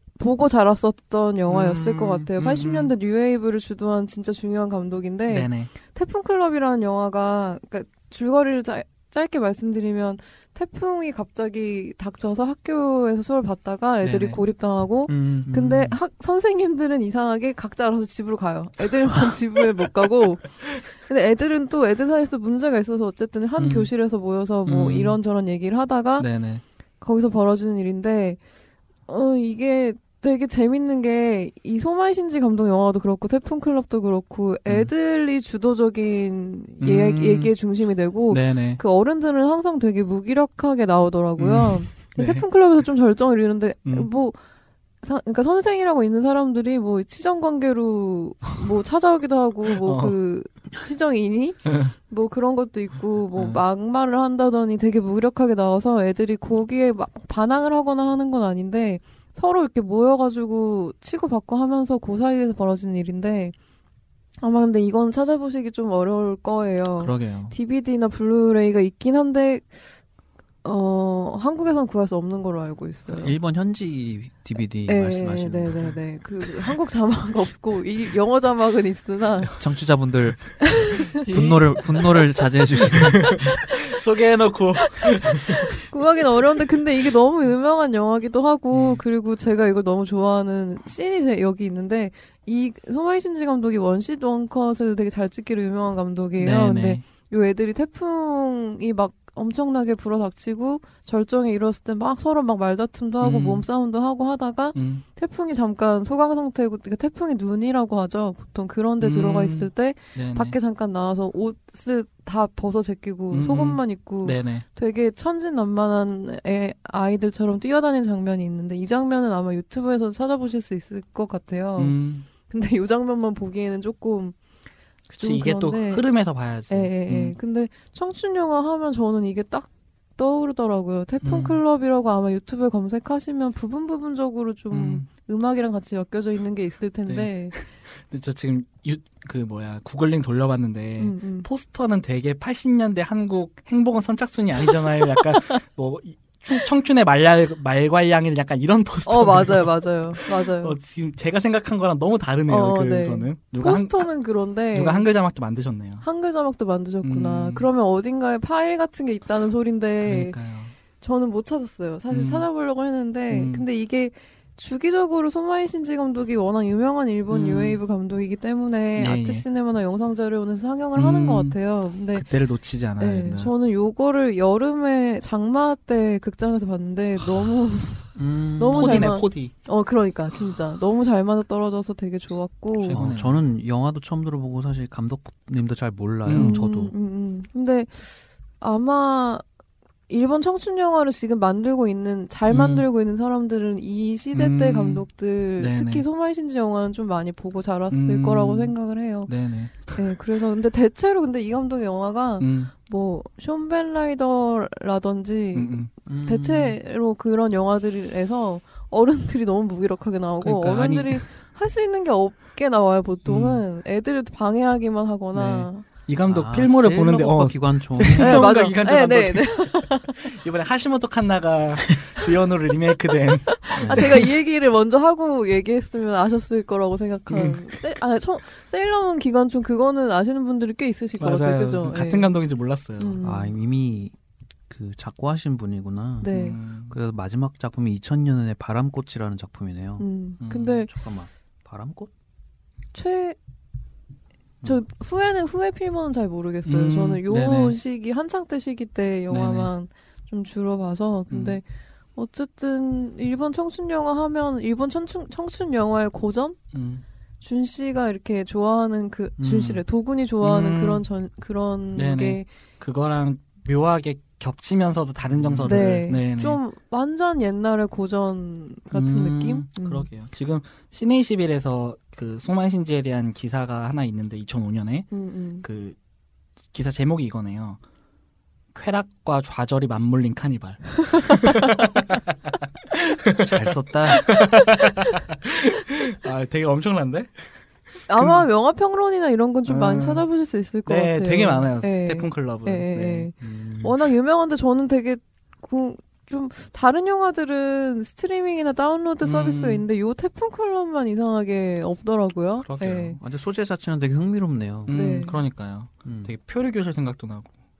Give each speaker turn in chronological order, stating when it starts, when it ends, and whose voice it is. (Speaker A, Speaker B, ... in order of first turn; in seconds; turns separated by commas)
Speaker A: 0.2-26.3, Speaker B: 1.5-2.9, Speaker B: 5.3-5.7, Speaker B: 14.0-14.4, Speaker B: 15.1-15.8, Speaker C: 15.5-15.9, Speaker B: 23.6-23.9, Speaker B: 24.6-25.2, Speaker B: 26.2-26.6, Speaker A: 27.0-28.4, Speaker A: 29.1-44.4, Speaker B: 36.8-37.5, Speaker B: 38.3-38.8, Speaker B: 41.4-42.4, Speaker A: 45.0-63.5, Speaker B: 49.7-50.1, Speaker B: 51.6-51.9, Speaker B: 53.3-53.6, Speaker A: 64.4-69.8, Speaker B: 67.0-67.5, Speaker A: 70.6-73.3, Speaker C: 73.1-75.9, Speaker A: 74.9-79.5, Speaker C: 79.6-83.6, Speaker A: 80.7-81.2, Speaker B: 81.1-82.0, Speaker B: 83.1-85.8, Speaker A: 85.7-124.3, Speaker B: 88.7-89.0, Speaker B: 96.4-97.0, Speaker B: 103.2-103.6, Speaker B: 104.7-105.0, Speaker B: 109.0-110.6, Speaker B: 113.3-114.6, Speaker B: 121.8-122.3, Speaker B: 125.1-127.3, Speaker A: 125.2-126.1, Speaker A: 126.7-137.6, Speaker B: 131.2-131.6, Speaker B: 134.7-135.1, Speaker B: 137.1-154.1, Speaker A: 141.0-141.5, Speaker A: 149.1-150.8, Speaker A: 152.5-155.1, Speaker B: 154.7-156.0, Speaker A: 156.0-160.3, Speaker B: 157.0-157.7, Speaker B: 160.0-160.7, Speaker A: 161.0-172.3, Speaker B: 162.1-162.5, Speaker B: 163.3-163.7, Speaker B: 167.3-167.8, Speaker B: 169.0-169.4, Speaker B: 170.9-171.6, Speaker B: 172.1-173.5, Speaker A: 173.0-183.0, Speaker C: 178.2-179.1, Speaker B: 178.7-179.5, Speaker B: 182.8-183.4, Speaker C: 182.9-186.9, Speaker B: 186.2-186.6, Speaker A: 186.3-189.4, Speaker A: 190.1-199.3, Speaker B: 192.5-192.8, Speaker B: 194.3-195.1, Speaker B: 195.6-196.0, Speaker B: 197.9-198.7, Speaker B: 199.3-200.1, Speaker A: 199.8-215.9, Speaker B: 202.4-202.7, Speaker B: 205.5-205.9, Speaker C: 206.1-206.8, Speaker B: 210.4-211.2, Speaker B: 213.2-213.6, Speaker B: 215.3-224.3, Speaker C: 216.3-218.5, Speaker A: 218.0-220.3, Speaker A: 223.5-232.3, Speaker C: 223.8-224.3, Speaker B: 227.3-227.8, Speaker B: 231.2-233.2, Speaker A: 233.0-233.5, Speaker C: 233.2-234.1, Speaker C: 234.7-236.3, Speaker A: 236.2-236.6, Speaker B: 236.3-236.9, Speaker C: 236.9-240.1, Speaker A: 240.0-240.9, Speaker B: 240.4-240.7, Speaker C: 240.6-242.1, Speaker A: 242.9-243.4, Speaker A: 244.6-251.6, Speaker B: 246.7-247.8, Speaker B: 249.3-249.7, Speaker B: 251.3-251.6, Speaker A: 252.2-256.6, Speaker B: 256.7-257.0, Speaker A: 257.4-262.5, Speaker B: 260.4-261.0, Speaker B: 261.9-266.6, Speaker C: 265.4-265.7, Speaker A: 265.6-270.1, Speaker B: 268.9-275.1, Speaker A: 275.1-275.6, Speaker B: 275.6-276.0, Speaker B: 276.7-277.8, Speaker B: 278.7-287.3, Speaker C: 283.4-284.3, Speaker A: 288.1-303.2, Speaker B: 288.2-288.4, Speaker B: 289.6-290.2, Speaker B: 290.9-293.3, Speaker C: 293.4-293.9, Speaker B: 299.2-299.8, Speaker B: 302.6-303.2, Speaker C: 303.2-305.0, Speaker B: 304.9-307.6, Speaker A: 304.9-305.4, Speaker C: 306.0-306.3